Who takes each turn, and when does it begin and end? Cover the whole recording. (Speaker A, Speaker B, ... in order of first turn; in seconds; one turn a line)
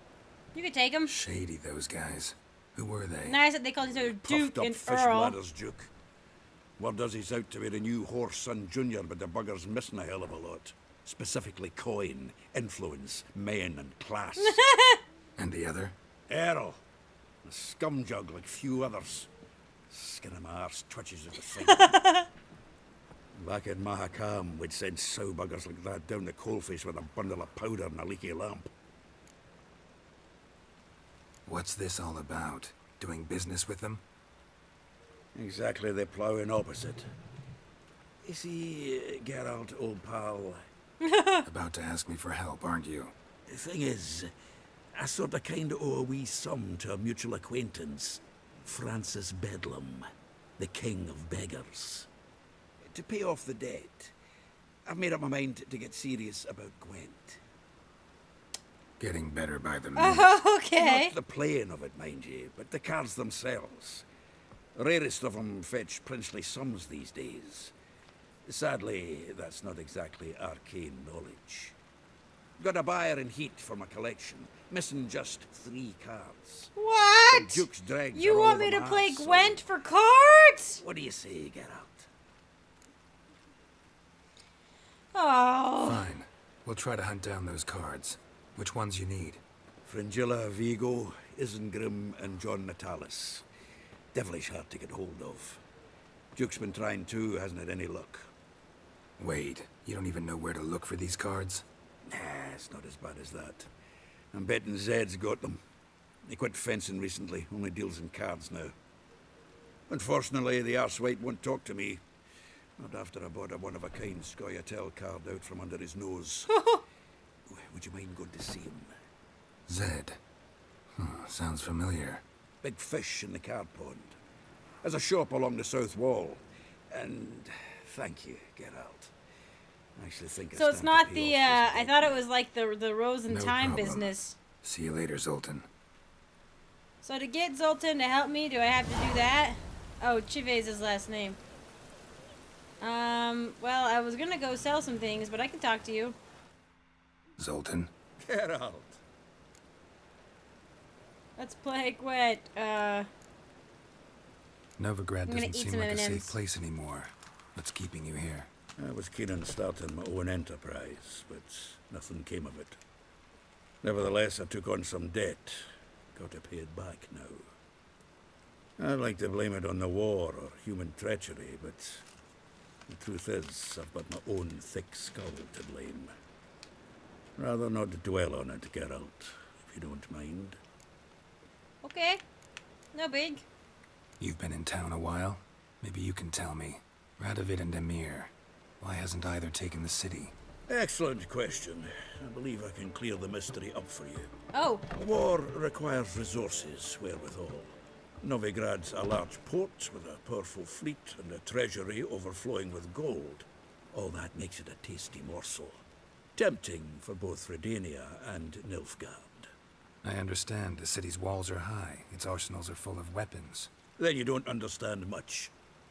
Speaker A: 0.5-1.1
Speaker B: 1.1-3.4
Speaker A: 3.2-5.3
Speaker C: 3.9-5.9
Speaker C: 6.8-14.6
Speaker A: 14.4-15.0
Speaker B: 15.4-15.9
Speaker C: 16.3-16.8
Speaker C: 17.4-19.3
Speaker C: 19.9-22.0
Speaker A: 21.7-22.3
Speaker C: 23.3-28.7
Speaker B: 31.4-34.0
Speaker C: 35.3-37.1
Speaker C: 38.2-40.6
Speaker A: 41.0-41.4
Speaker B: 41.4-43.1
Speaker C: 43.5-44.3
Speaker C: 44.9-52.1
Speaker C: 52.8-54.1
Speaker C: 54.8-57.4
Speaker B: 59.0-60.4
Speaker A: 59.9-61.1
Speaker C: 60.8-64.0
Speaker C: 64.7-67.7
Speaker C: 68.4-71.8
Speaker C: 72.6-76.7
Speaker A: 76.8-80.8
Speaker C: 77.3-79.6
Speaker C: 80.8-82.1
Speaker A: 85.1-86.1
Speaker B: 85.8-89.4
Speaker C: 89.8-93.4
Speaker C: 94.1-95.6
Speaker C: 96.3-98.3
Speaker B: 99.2-101.6
Speaker C: 102.0-103.7
Speaker C: 104.3-105.6
Speaker C: 106.2-108.8
Speaker C: 109.9-112.0
Speaker C: 112.8-116.5
Speaker A: 116.5-116.8
Speaker C: 117.5-118.9
Speaker B: 119.7-120.2
Speaker B: 120.9-122.2
Speaker C: 122.6-124.2
Speaker C: 124.8-129.1
Speaker C: 129.9-132.2
Speaker A: 130.5-134.4
Speaker B: 133.3-135.7
Speaker A: 137.0-141.4
Speaker A: 142.8-146.2
Speaker B: 147.4-147.9
Speaker C: 148.2-149.0
Speaker A: 151.4-153.1
Speaker B: 154.8-158.5
Speaker A: 155.3-156.3
Speaker C: 158.8-162.8
Speaker C: 163.8-167.5
Speaker C: 168.8-172.0
Speaker C: 172.9-176.1
Speaker C: 177.4-180.6
Speaker A: 181.8-182.2
Speaker A: 182.9-183.4
Speaker B: 184.2-190.3
Speaker C: 190.7-194.3
Speaker A: 194.5-194.8
Speaker C: 194.9-205.8
Speaker C: 206.3-209.5
Speaker B: 210.0-213.7
Speaker C: 214.0-215.5